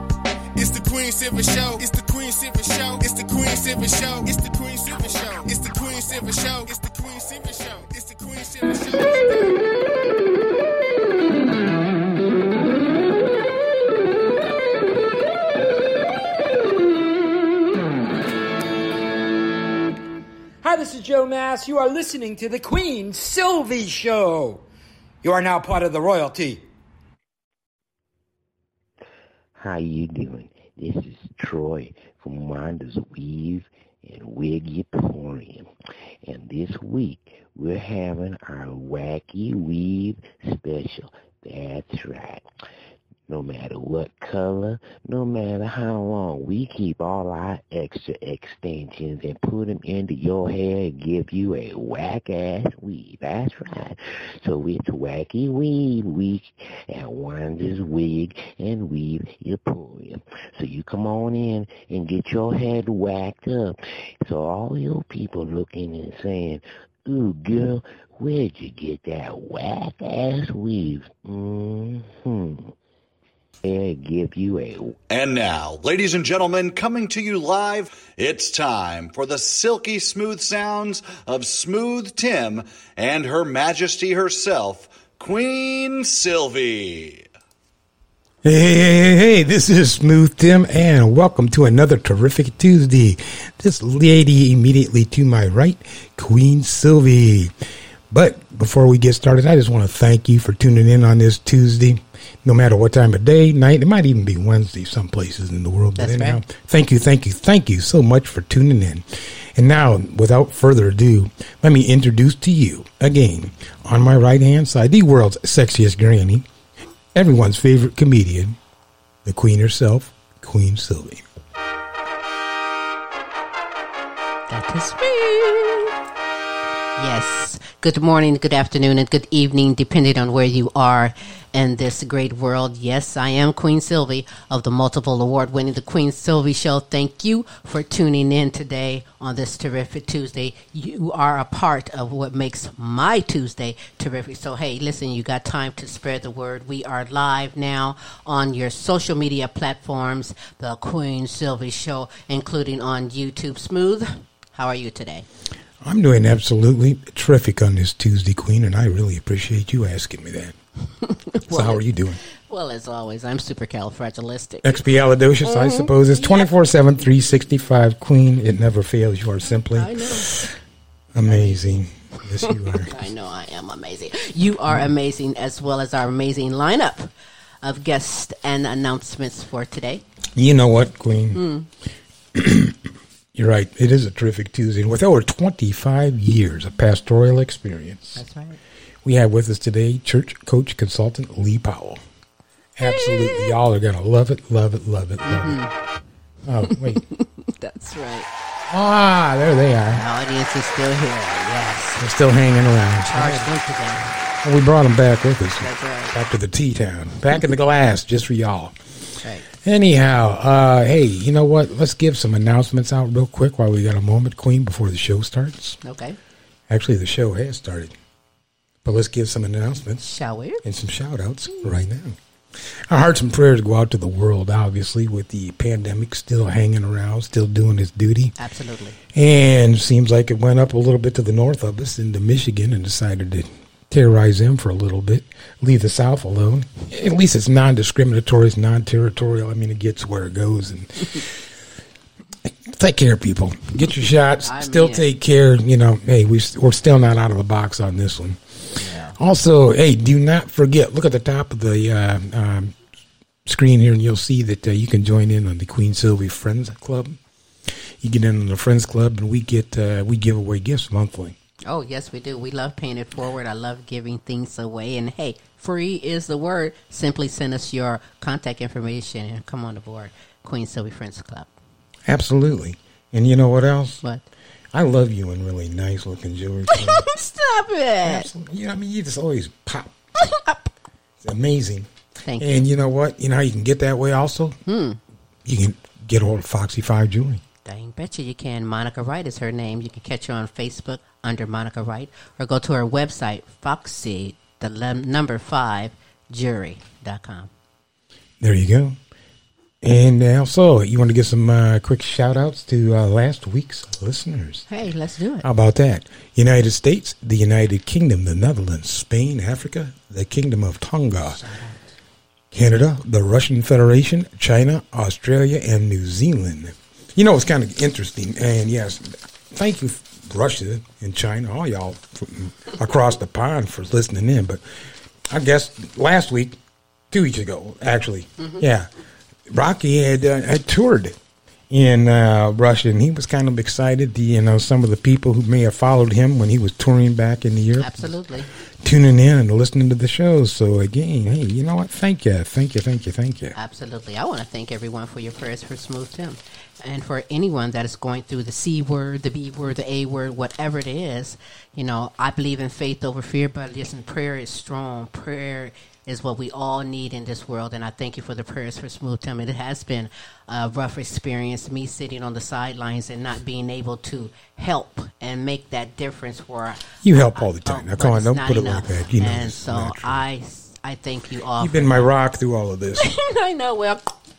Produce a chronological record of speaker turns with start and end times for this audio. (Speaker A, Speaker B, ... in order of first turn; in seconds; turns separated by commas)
Speaker A: 0.6-9.6, Speaker B: 20.6-24.7, Speaker B: 25.2-26.7, Speaker C: 29.6-35.7, Speaker C: 36.2-42.5, Speaker C: 43.3-72.7, Speaker C: 73.6-75.0, Speaker D: 75.1-87.3, Speaker E: 88.4-97.5, Speaker E: 98.1-116.5, Speaker F: 106.0-106.4, Speaker E: 117.1-118.6, Speaker E: 119.2-121.2, Speaker F: 124.5-125.9, Speaker F: 127.0-155.3, Speaker E: 155.8-160.6, Speaker F: 161.0-164.8, Speaker E: 161.5-162.2, Speaker E: 164.6-170.5, Speaker F: 165.4-166.5, Speaker F: 169.5-170.5, Speaker E: 171.1-172.9, Speaker F: 171.2-171.8, Speaker F: 172.4-177.1, Speaker F: 177.6-180.0, Speaker E: 180.3-181.4, Speaker F: 181.3-181.7, Speaker E: 182.3-182.8, Speaker E: 183.3-188.2, Speaker F: 188.2-188.6, Speaker E: 189.0-192.0, Speaker E: 192.8-195.6, Speaker F: 192.9-193.5, Speaker F: 195.2-195.7, Speaker E: 196.4-197.0, Speaker F: 196.7-198.3, Speaker E: 198.7-200.0, Speaker F: 199.9-202.0, Speaker E: 202.0-203.5, Speaker F: 203.1-204.1, Speaker E: 204.4-215.8, Speaker F: 205.6-206.2, Speaker F: 209.2-209.5, Speaker F: 215.8-216.2, Speaker E: 216.7-217.9, Speaker E: 218.8-220.0, Speaker F: 220.0-220.6, Speaker E: 220.6-228.3, Speaker F: 228.4-229.0, Speaker E: 229.1-241.5, Speaker E: 242.4-252.8, Speaker F: 244.4-245.1, Speaker F: 248.8-249.2, Speaker E: 253.4-257.2, Speaker E: 258.0-261.4, Speaker F: 261.7-271.5, Speaker E: 272.1-274.0, Speaker E: 274.7-277.1, Speaker F: 276.7-278.3, Speaker E: 278.1-279.9, Speaker F: 280.2-280.7, Speaker E: 281.2-284.6, Speaker F: 282.2-282.7, Speaker F: 284.7-285.0, Speaker E: 285.4-287.4, Speaker F: 287.6-297.5, Speaker E: 298.4-299.0, Speaker E: 299.8-304.7, Speaker F: 304.7-305.5, Speaker E: 305.4-311.4, Speaker F: 311.4-311.8, Speaker E: 312.5-324.6, Speaker E: 325.3-326.6, Speaker E: 327.1-328.9, Speaker E: 329.5-331.2, Speaker E: 331.7-338.1, Speaker F: 337.8-338.5, Speaker E: 338.8-343.6, Speaker F: 343.6-372.1, Speaker E: 367.0-370.2, Speaker E: 371.6-373.1, Speaker F: 373.0-374.2